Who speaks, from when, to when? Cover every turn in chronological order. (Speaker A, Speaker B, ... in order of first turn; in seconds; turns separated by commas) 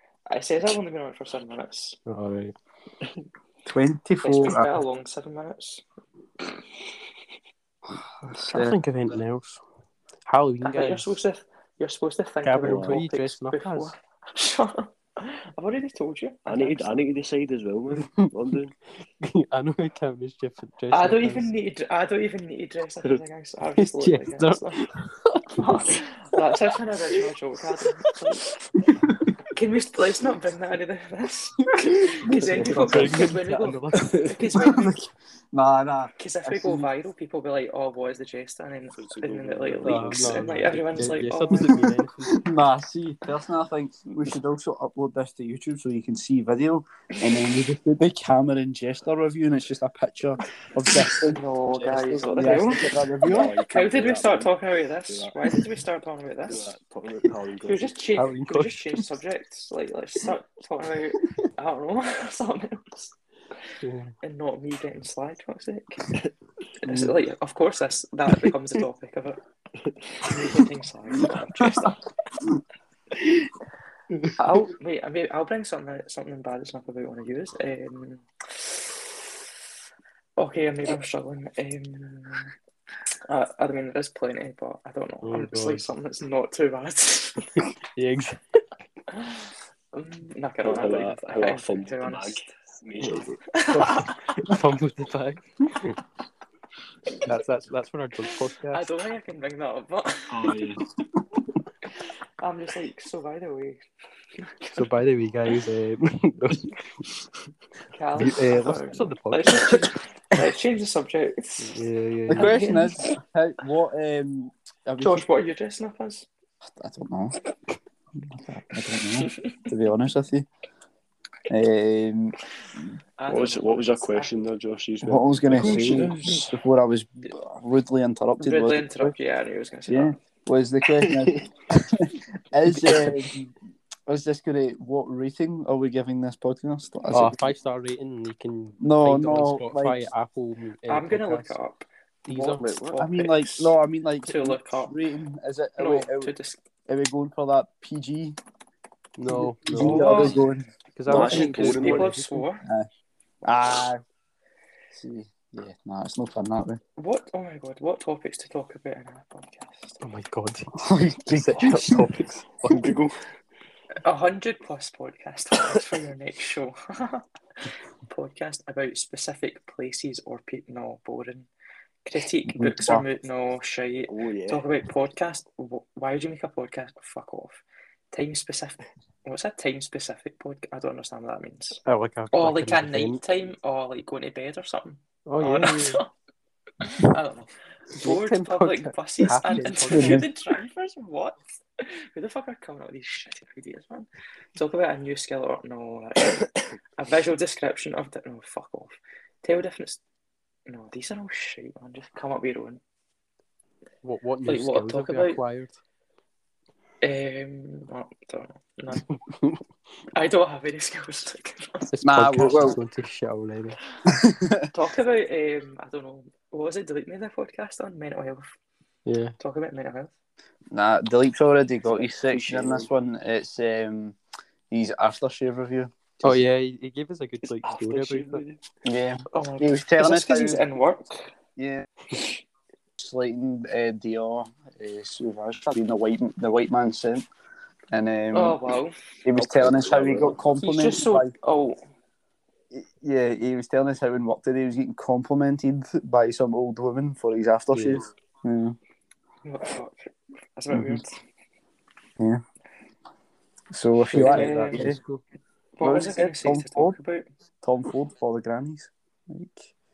Speaker A: 0.3-2.0, Speaker B: 2.0-2.5, Speaker C: 3.6-4.8, Speaker A: 4.2-5.8, Speaker C: 8.3-8.7, Speaker B: 8.3-9.6, Speaker B: 10.3-11.1, Speaker A: 10.6-17.1, Speaker B: 12.4-13.9, Speaker D: 12.6-13.0, Speaker D: 16.5-18.7, Speaker B: 18.0-18.3, Speaker B: 19.0-21.5, Speaker A: 20.9-24.8, Speaker B: 23.8-26.0, Speaker A: 25.6-28.5, Speaker A: 29.5-35.1, Speaker C: 32.3-33.1, Speaker B: 32.4-34.5, Speaker C: 34.6-35.0, Speaker C: 35.5-36.9, Speaker A: 36.2-41.8, Speaker D: 38.9-40.7, Speaker B: 39.8-42.4, Speaker C: 41.6-53.5, Speaker A: 51.1-56.7, Speaker D: 53.2-54.5, Speaker D: 55.1-55.4, Speaker D: 56.5-58.0, Speaker A: 57.6-63.1, Speaker B: 58.1-59.1, Speaker B: 63.8-64.1, Speaker A: 64.2-66.1, Speaker A: 66.8-69.4, Speaker C: 66.9-67.1, Speaker A: 70.2-72.0, Speaker A: 74.3-79.1, Speaker A: 80.4-82.5, Speaker A: 83.3-87.5, Speaker B: 85.2-85.8, Speaker B: 88.0-88.4, Speaker A: 89.1-92.5, Speaker D: 90.6-93.3, Speaker B: 93.0-96.0, Speaker A: 93.5-94.2, Speaker B: 97.2-98.8, Speaker A: 98.7-100.6, Speaker D: 100.3-100.8, Speaker A: 102.4-103.8, Speaker A: 104.4-104.8, Speaker B: 104.7-106.8, Speaker A: 107.9-113.2, Speaker B: 108.2-109.8, Speaker B: 111.6-112.6, Speaker C: 112.3-115.3, Speaker A: 115.0-116.3, Speaker C: 116.7-117.4, Speaker C: 118.1-120.5, Speaker A: 119.1-119.6, Speaker C: 121.5-122.3, Speaker A: 123.2-124.3, Speaker D: 123.3-126.1, Speaker C: 125.0-129.2, Speaker A: 125.5-126.5, Speaker A: 128.4-130.2, Speaker C: 129.9-133.5, Speaker C: 134.1-137.4, Speaker B: 137.1-141.6, Speaker C: 138.8-140.1, Speaker A: 140.9-144.9, Speaker B: 142.2-142.8, Speaker D: 142.6-143.0, Speaker C: 143.0-146.3, Speaker A: 145.8-146.6, Speaker C: 146.9-148.4, Speaker B: 149.2-150.4, Speaker C: 149.3-151.4, Speaker A: 149.7-150.4, Speaker B: 150.9-152.5, Speaker D: 151.1-152.1, Speaker A: 151.2-152.6, Speaker C: 153.4-154.0, Speaker C: 154.9-156.8, Speaker A: 157.0-160.0, Speaker B: 160.0-163.0, Speaker C: 160.8-162.1, Speaker D: 162.8-163.1, Speaker A: 164.0-167.2, Speaker A: 168.1-171.5, Speaker A: 172.0-181.8, Speaker C: 172.4-173.0, Speaker D: 174.1-174.7, Speaker B: 181.8-183.2, Speaker A: 182.3-186.1, Speaker B: 185.2-186.0, Speaker A: 186.8-200.0, Speaker B: 187.9-190.3, Speaker C: 189.5-190.3, Speaker A: 200.7-202.8, Speaker B: 204.0-205.8, Speaker A: 204.4-205.4, Speaker A: 207.0-209.0, Speaker B: 209.1-209.6, Speaker A: 210.1-211.9, Speaker B: 211.9-213.8, Speaker C: 212.0-212.8, Speaker C: 214.1-214.7, Speaker A: 214.7-218.5, Speaker B: 219.1-219.3, Speaker A: 219.4-220.1, Speaker C: 220.7-224.2, Speaker D: 221.9-222.9, Speaker C: 224.7-226.4, Speaker B: 226.2-228.4, Speaker D: 227.6-228.6, Speaker C: 228.8-230.6, Speaker A: 229.3-231.3, Speaker C: 231.6-231.8, Speaker C: 233.0-237.3, Speaker C: 237.9-238.6, Speaker A: 238.3-239.0, Speaker C: 239.2-241.3, Speaker D: 239.3-240.4, Speaker A: 240.6-241.8, Speaker C: 242.7-248.8, Speaker B: 247.7-248.1, Speaker A: 249.4-251.1, Speaker C: 250.7-251.0, Speaker C: 253.7-255.0, Speaker A: 254.1-254.9, Speaker B: 254.1-255.2, Speaker A: 255.8-257.2, Speaker C: 255.8-257.0, Speaker C: 257.6-259.7